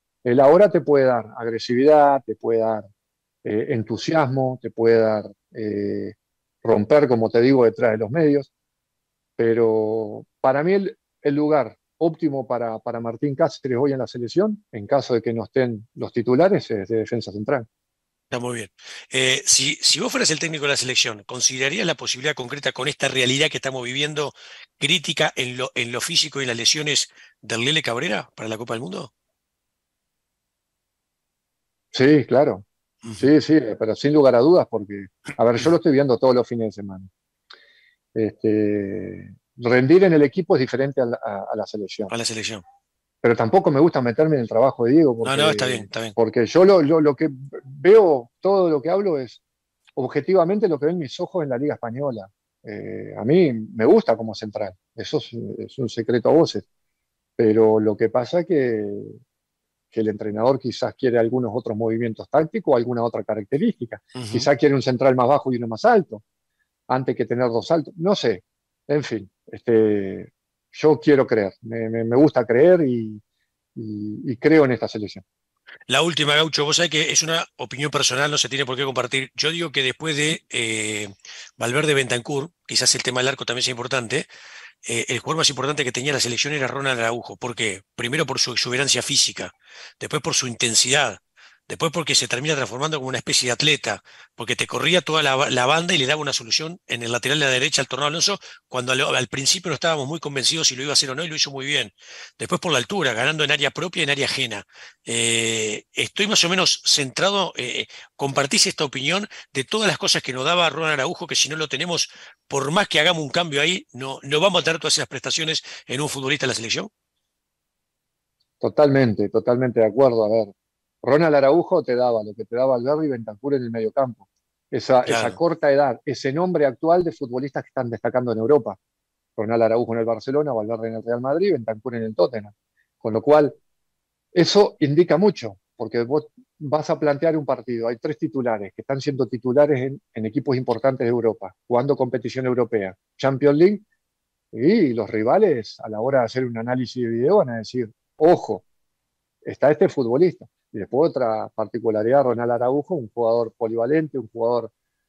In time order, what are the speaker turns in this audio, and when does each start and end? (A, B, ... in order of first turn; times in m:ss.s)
0:00.2-0:02.8 A
0:03.4-0:08.5 A
0:09.4-0:17.7 A
0:18.3-0:29.1 B
0:31.9-0:32.6 A
0:33.0-0:33.3 B
0:33.2-0:37.1 A
0:38.2-0:42.1 A
0:42.1-0:42.6 B
0:43.2-0:49.4 A
0:45.2-0:46.2 B
0:50.0-0:56.6 A
0:57.4-0:59.2 A
0:59.9-1:06.2 A
1:04.2-1:04.5 B
1:06.9-1:13.2 A
1:13.8-1:15.2 A
1:15.9-1:24.3 B
1:24.8-1:56.9 B
1:58.6-2:08.8 A
2:05.1-2:05.4 B
2:09.4-2:13.6 A
2:14.3-2:23.9 A
2:24.5-2:28.6 A
2:29.4-2:34.7 A